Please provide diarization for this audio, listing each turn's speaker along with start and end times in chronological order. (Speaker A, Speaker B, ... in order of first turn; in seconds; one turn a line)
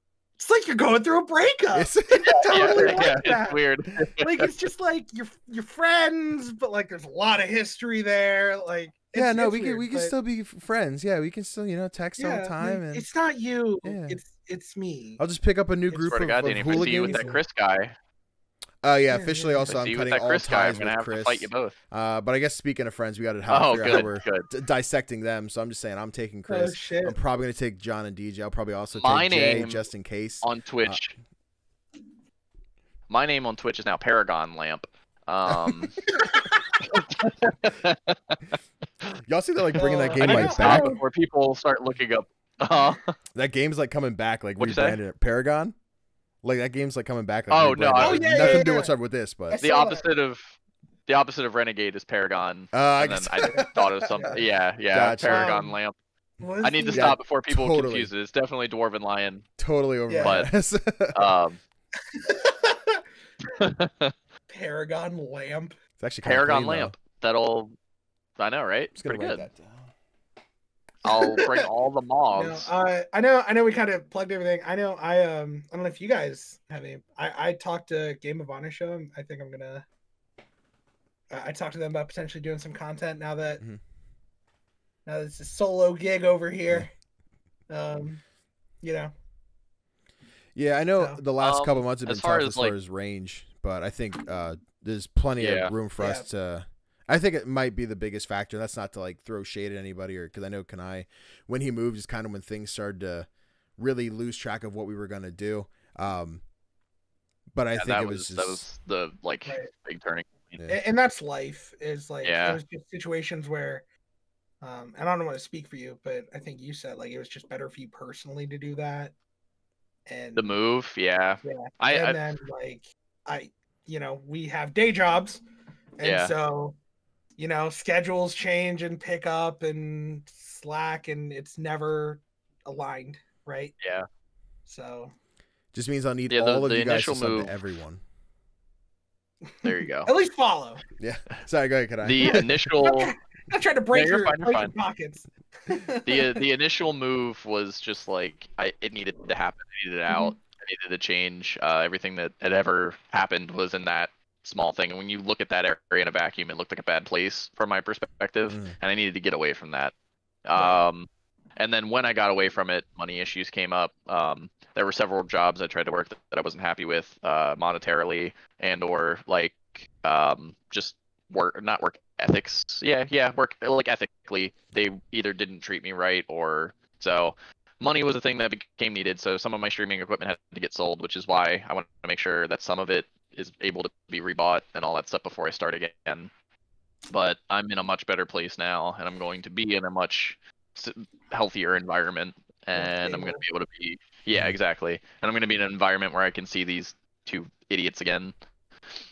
Speaker A: 0.4-3.6
Speaker B: 1.7-3.0
Speaker C: 2.5-4.5
Speaker A: 4.2-10.1
Speaker B: 9.1-13.1
Speaker A: 12.2-15.2
Speaker B: 13.8-14.2
Speaker B: 15.2-17.4
Speaker C: 16.0-17.9
Speaker A: 16.7-17.4
Speaker B: 18.8-31.1
Speaker A: 19.1-19.7
Speaker C: 19.7-21.8
Speaker C: 23.5-24.5
Speaker A: 23.8-24.1
Speaker A: 26.5-27.2
Speaker C: 28.9-29.9
Speaker C: 30.4-31.1
Speaker C: 33.1-36.0
Speaker A: 36.2-36.5
Speaker C: 36.9-38.4
Speaker B: 39.3-40.9
Speaker A: 39.8-41.0
Speaker C: 40.2-43.1
Speaker B: 43.3-45.7
Speaker C: 44.6-45.0
Speaker B: 46.4-49.6
Speaker C: 47.5-48.6
Speaker A: 48.0-48.9
Speaker A: 49.5-50.0
Speaker C: 49.6-55.9
Speaker B: 52.7-53.7
Speaker A: 53.5-54.4
Speaker B: 54.9-55.5
Speaker A: 55.2-55.8
Speaker A: 56.4-57.2
Speaker C: 56.6-59.4
Speaker B: 56.9-58.1
Speaker B: 59.6-61.3
Speaker A: 60.1-60.4
Speaker C: 60.2-60.5
Speaker C: 61.1-61.6
Speaker A: 62.1-63.0
Speaker C: 63.5-64.1
Speaker A: 64.5-65.7
Speaker B: 66.0-66.9
Speaker C: 66.2-67.7
Speaker C: 68.4-69.5
Speaker B: 69.0-69.9
Speaker C: 71.0-72.7
Speaker A: 71.0-71.6
Speaker A: 72.3-79.8
Speaker A: 81.3-83.6
Speaker A: 85.0-86.9
Speaker A: 87.7-88.2
Speaker A: 88.8-89.1
Speaker B: 90.5-106.4
Speaker C: 91.4-92.7
Speaker C: 95.4-95.7
Speaker A: 96.0-96.3
Speaker B: 107.5-108.6
Speaker C: 107.7-110.6
Speaker A: 110.7-113.8
Speaker C: 112.2-112.6
Speaker A: 114.6-119.1
Speaker A: 120.0-120.5
Speaker C: 120.3-122.2
Speaker A: 121.4-125.4
Speaker A: 126.0-126.8
Speaker C: 126.0-126.3
Speaker A: 127.4-133.7
Speaker A: 134.7-135.1
Speaker B: 135.7-138.0
Speaker C: 136.3-137.6
Speaker C: 139.6-140.1
Speaker A: 140.1-140.8
Speaker B: 141.0-142.6
Speaker C: 142.0-143.1
Speaker A: 142.2-146.4
Speaker C: 143.9-144.7
Speaker C: 146.0-159.9
Speaker A: 150.1-150.4
Speaker B: 158.5-158.8
Speaker C: 160.4-186.3
Speaker A: 160.6-160.8
Speaker C: 187.1-198.3
Speaker A: 192.7-193.4